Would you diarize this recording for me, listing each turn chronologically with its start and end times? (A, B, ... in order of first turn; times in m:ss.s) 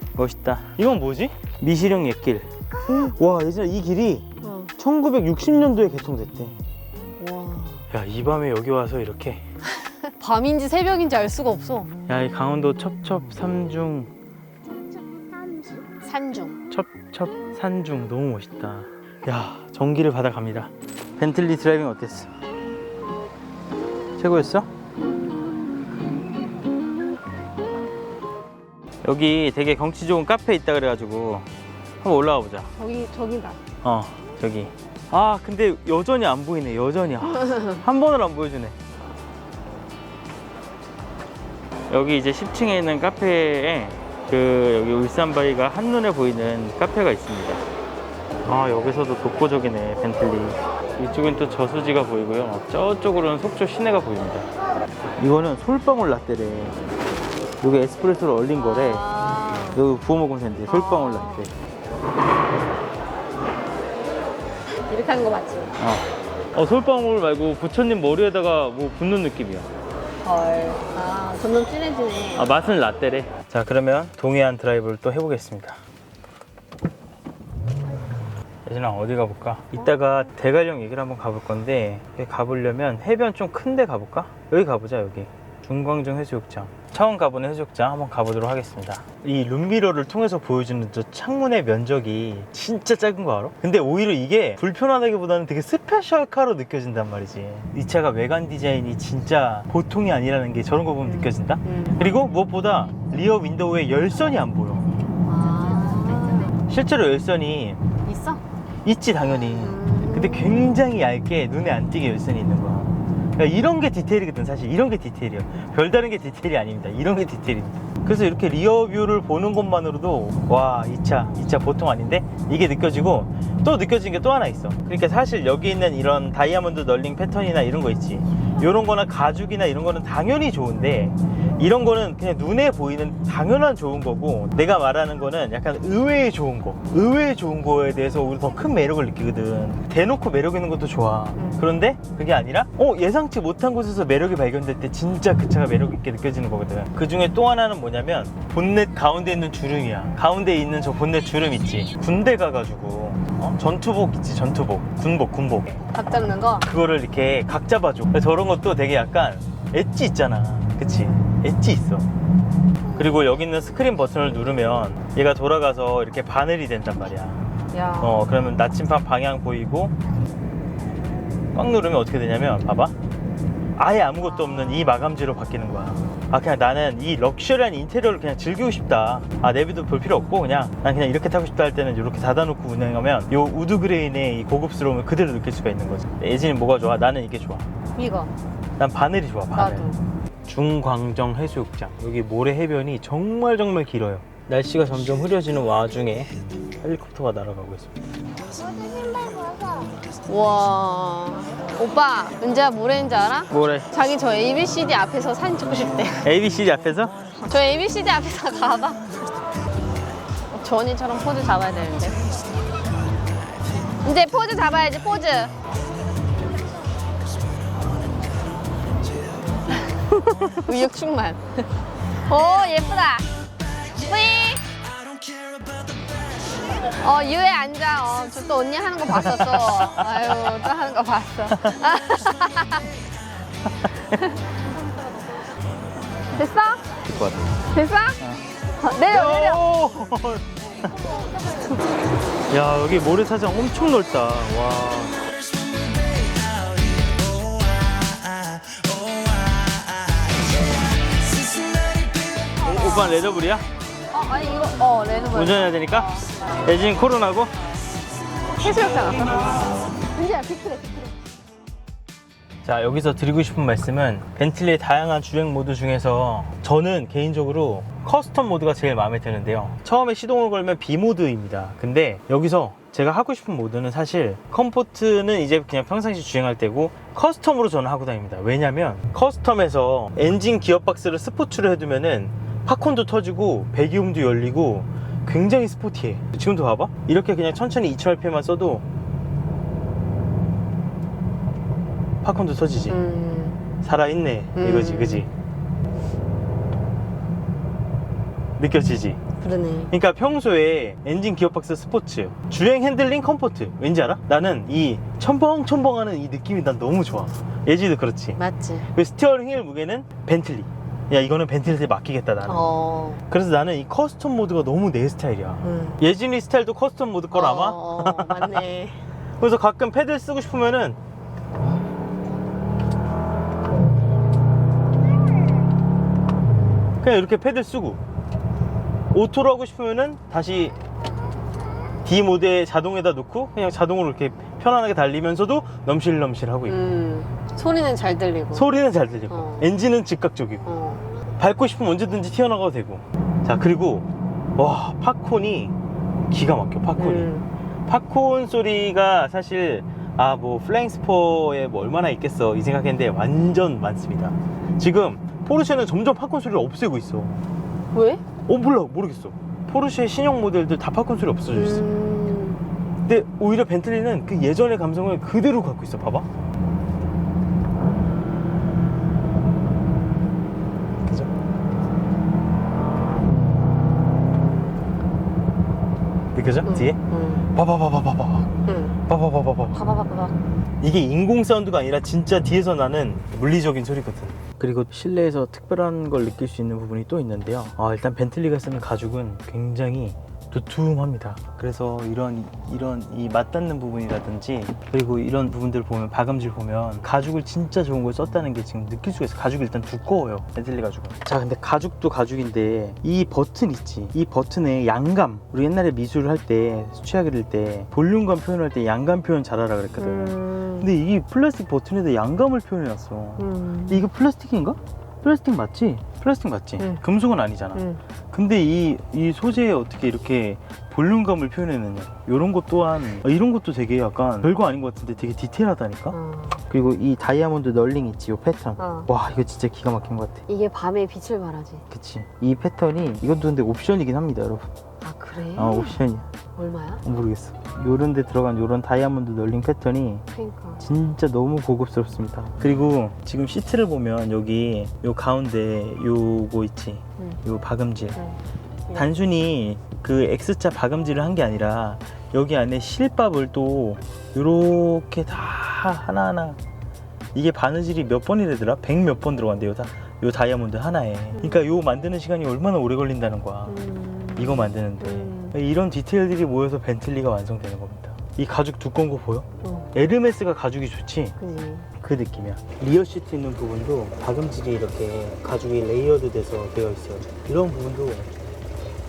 0:00.2-0:04.2 A
0:04.4-0:04.8 B
0:04.8-0:06.6 A
0:07.2-0:07.9 B
0:07.9-0:09.4 A
0:10.2-0:11.9 B
0:12.1-0:14.1 A
0:14.8-0:16.0 C
0:16.0-0:16.6 B
0:16.7-0:22.3 A
0:24.2-0:24.7 A
0:29.0-0:31.5 A
0:32.0-0:32.7 A
0:32.8-0:33.6 B
0:33.8-0:38.8 A
0:41.9-0:47.6 A
0:48.4-0:54.5 A
0:55.2-0:56.8 A
0:57.6-1:01.5 A
0:58.6-0:59.8 B
1:00.7-1:01.5 B
1:04.9-1:05.8 B
1:05.8-1:09.7 A
1:10.2-1:12.6 B
1:12.4-1:15.8 A
1:18.7-1:44.9 A
1:41.0-1:42.0 B
1:45.2-1:46.6 B
1:46.6-1:47.9 A
1:48.0-1:48.4 B
1:48.8-2:35.8 A
1:49.5-1:50.8 B
2:21.4-2:21.7 B
2:35.9-2:36.7 B
2:36.6-2:42.1 A
2:40.8-2:41.3 B
2:43.0-2:47.5 A
2:47.7-2:48.3 B
2:48.0-2:50.0 A
2:51.5-2:52.9 A
2:53.8-3:07.7 A
3:08.0-3:08.3 B
3:08.8-3:09.9 A
3:09.6-3:10.0 B
3:10.5-3:18.0 A
3:18.5-3:20.0 C
3:20.3-3:26.3 B
3:23.5-3:23.9 A
3:26.2-3:27.3 A
3:27.4-3:29.2 B
3:30.5-3:32.5 B
3:34.0-3:35.5 B
3:39.7-3:43.3 B
3:43.9-3:44.7 B
3:46.8-3:52.9 B
3:49.0-3:50.6 A
3:51.5-3:51.8 A
3:53.8-3:54.2 A
3:54.1-3:54.4 B
3:56.3-3:56.9 B
3:57.0-3:57.6 A
3:57.7-3:58.2 B
3:58.8-3:59.7 B
3:59.0-4:00.9 A
4:02.5-4:05.2 A
4:12.5-4:13.7 A
4:12.8-4:13.1 B
4:14.1-4:16.1 B
4:15.3-4:17.5 A
4:18.6-4:21.1 B
4:22.6-4:48.8 A
4:52.2-4:53.0 A
4:52.9-4:53.6 B
4:53.8-4:55.3 A
4:54.6-4:55.3 B
4:58.6-4:59.2 A
4:59.4-4:59.9 B
4:59.9-5:08.4 A
5:08.4-5:08.9 B
5:08.9-5:12.7 A
5:12.4-5:13.2 B
5:13.3-5:18.6 A
5:15.6-5:16.0 B
5:17.3-5:19.1 B
5:19.4-5:21.0 A
5:27.0-5:28.0 A
5:29.1-5:30.8 A
5:32.0-5:36.8 A
5:36.7-5:38.7 B
5:38.5-5:40.7 A
5:39.3-5:39.7 B
5:40.7-5:41.1 B
5:41.4-5:45.8 A
5:46.3-5:47.3 A
5:47.0-5:47.5 B
5:47.9-5:57.4 A
5:57.9-5:58.2 B
5:58.4-6:01.9 A
6:01.5-6:02.7 B
6:03.1-6:06.3 A
6:11.0-6:11.3 A
6:16.4-6:17.0 A
6:16.6-6:17.5 B
6:17.5-6:18.5 A
6:18.7-6:19.0 B
6:19.1-6:19.8 A
6:19.7-6:20.4 B
6:20.8-7:06.2 A
6:50.0-6:50.9 B
6:53.4-6:54.1 B
6:57.8-6:58.0 B
7:06.1-7:06.6 B
7:06.7-7:10.4 A
7:08.8-7:09.1 B
7:10.5-7:11.9 B
7:11.9-7:14.7 A
7:15.0-7:16.0 B
7:15.6-7:16.3 A
7:16.6-7:17.0 B
7:17.0-7:20.2 A
7:20.3-7:20.8 B
7:20.8-7:28.2 A
7:28.2-7:29.1 B
7:28.9-7:36.6 A
7:37.3-7:43.8 A
7:41.4-7:41.6 B
7:43.7-7:45.6 B
7:44.4-7:51.4 A
7:49.6-7:49.9 B
7:51.4-7:51.9 B
7:52.0-7:58.3 A